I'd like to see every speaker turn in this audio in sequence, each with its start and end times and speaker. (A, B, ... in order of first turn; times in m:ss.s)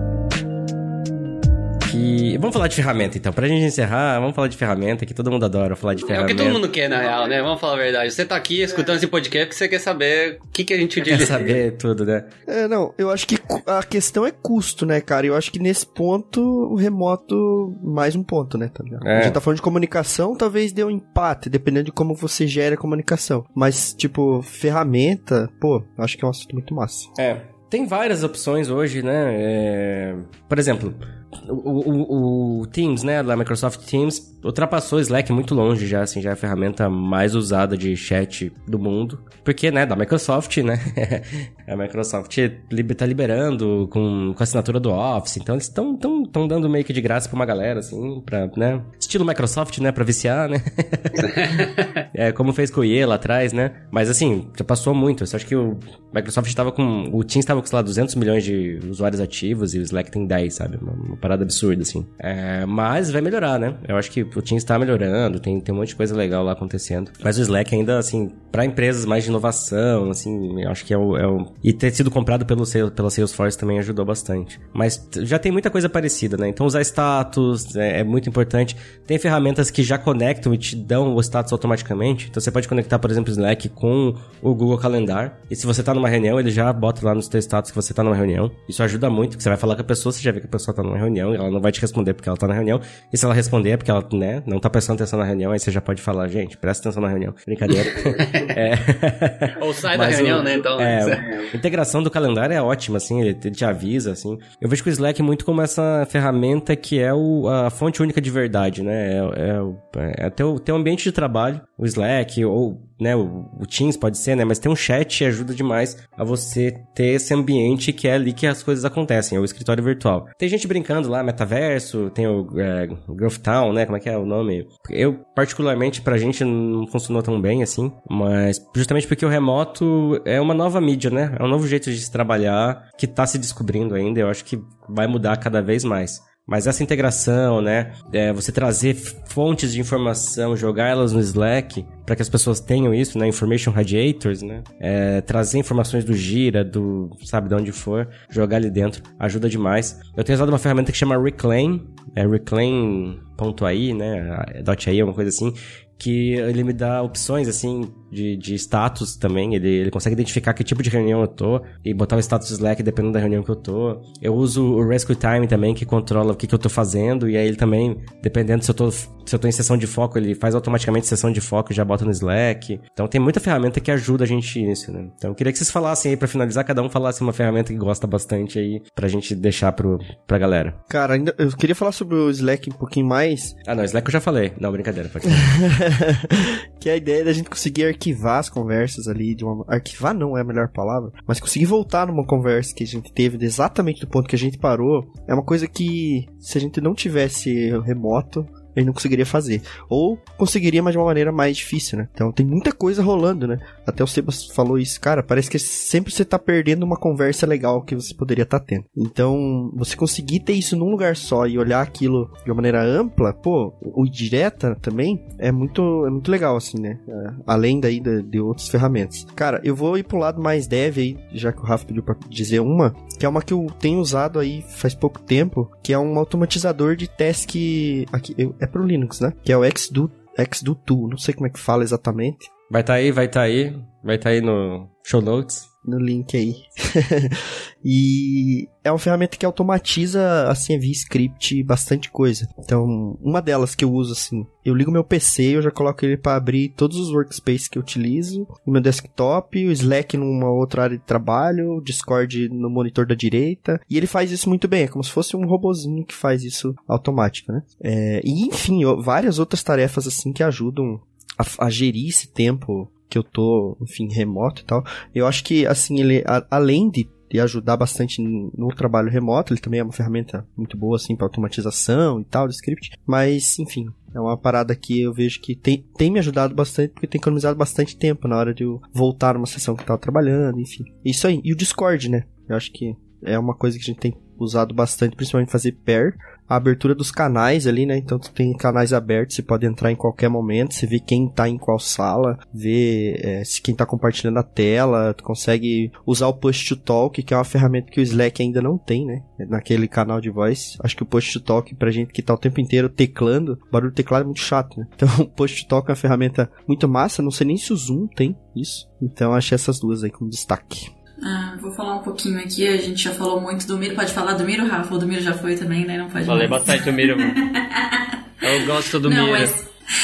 0:01.8-0:06.6 A
0:06.1-0:11.6 B
0:11.1-0:12.3 A
0:12.5-0:27.1 C
0:19.0-0:19.4 A
0:27.2-3:00.8 A
1:39.6-1:41.4 B
3:00.9-3:03.6 C
3:03.7-3:05.6 A
3:05.6-3:52.5 C
3:52.7-3:55.7 A
3:55.8-5:10.9 C
5:11.2-5:19.7 D
5:16.3-5:17.4 B
5:18.4-5:19.5 B